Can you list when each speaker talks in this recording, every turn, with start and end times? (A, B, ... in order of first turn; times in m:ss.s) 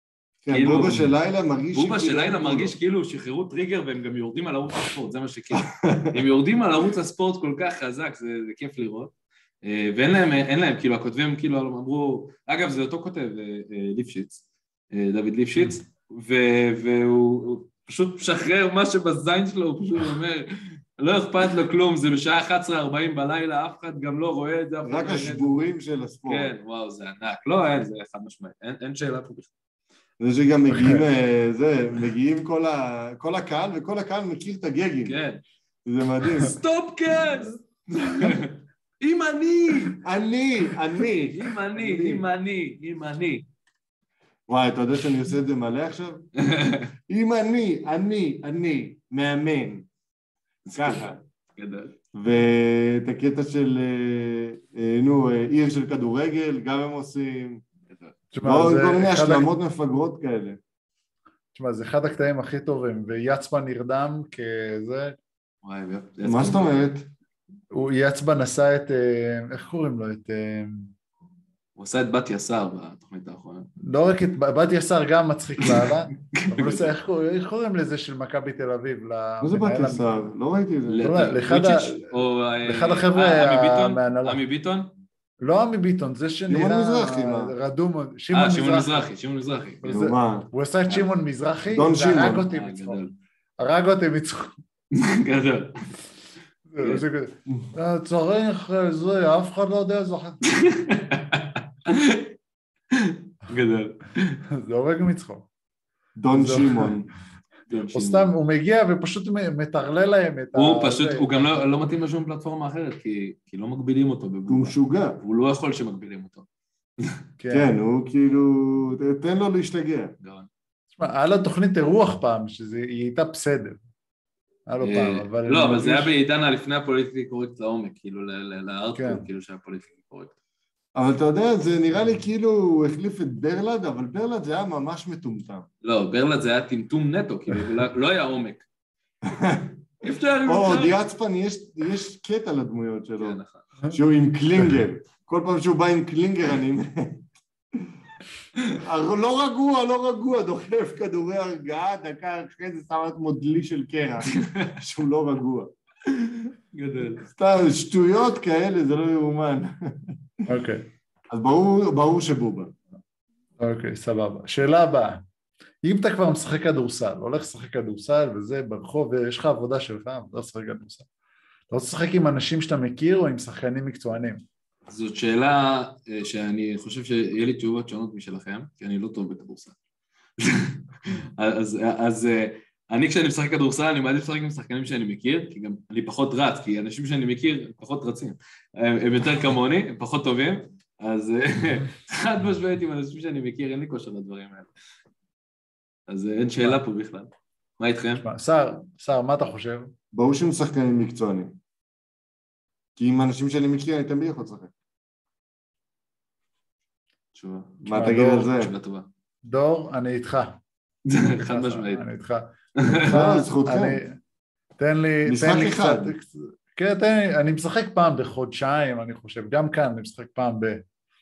0:00.4-0:02.8 A
0:00.5-0:01.1 B
0:01.7-0:25.6 B
0:05.7-0:06.2 A
0:24.8-0:26.5 A
0:26.2-0:29.5 B
0:30.2-0:35.2 A
0:35.0-0:35.4 B
0:35.8-0:36.6 A
0:36.4-0:40.0 B
0:39.9-0:42.2 A
0:41.3-0:43.4 B
0:44.5-0:46.3 A
0:46.4-0:46.9 B
0:47.1-0:49.9 A
0:50.6-0:51.9 B
0:50.7-0:51.2 A
0:52.1-0:57.6 A
0:58.3-0:59.5 C
0:58.4-1:00.6 A
1:01.5-1:05.2 C
1:05.6-1:06.8 B
1:06.2-1:07.1 A
1:07.7-1:10.9 C
1:11.8-1:13.7 B
1:13.8-1:20.0 C
1:15.6-1:16.9 B
1:19.4-1:21.1 A
1:20.9-1:24.9 B
1:21.0-1:22.0 C
1:22.6-1:24.4 C
1:25.4-1:29.0 C
1:26.5-1:27.5 A
1:28.3-1:30.0 B
1:29.8-1:33.0 C
1:29.9-1:30.5 A
1:31.7-1:32.4 A
1:32.5-1:33.1 B
1:33.6-1:34.6 C
1:34.9-1:35.8 B
1:36.7-1:40.5 C
1:36.8-1:37.0 B
1:40.4-1:42.3 B
1:42.9-1:44.4 B
1:44.5-1:45.5 C
1:46.2-1:47.1 A
1:46.3-1:46.9 C
1:47.7-1:48.3 B
1:47.9-1:51.4 C
1:50.5-1:56.4 B
1:54.5-1:55.2 A
1:57.4-1:57.7 C
1:57.5-2:00.1 A
2:00.2-2:00.5 B
2:01.0-2:03.8 C
2:04.7-2:06.1 C
2:04.8-2:10.3 B
2:08.9-2:09.2 C
2:10.9-2:15.7 A
2:15.8-2:18.6 B
2:19.2-2:19.8 A
2:20.0-2:21.0 B
2:20.4-2:23.4 A
2:23.2-2:23.6 B
2:23.9-2:27.9 A
2:28.7-2:35.7 A
2:34.3-2:34.7 B
2:36.1-2:37.2 B
2:37.3-2:40.4 A
2:40.5-2:40.8 C
2:41.3-2:42.7 A
2:43.6-2:45.2 C
2:45.8-2:51.1 C
2:51.7-2:54.4 C
2:54.9-2:59.8 B
3:00.4-3:14.7 B
3:16.1-3:18.2 B
3:18.2-3:19.9 C
3:20.1-3:21.6 A
3:23.0-3:24.7 A
3:27.3-3:29.1 B
3:27.8-3:28.7 A
3:27.9-3:28.5 C
3:29.4-3:30.6 C
3:31.0-3:32.0 B
3:31.4-3:34.2 C
3:32.8-3:33.2 B
3:33.0-3:34.0 A
3:34.8-3:40.8 C
3:35.2-3:36.1 A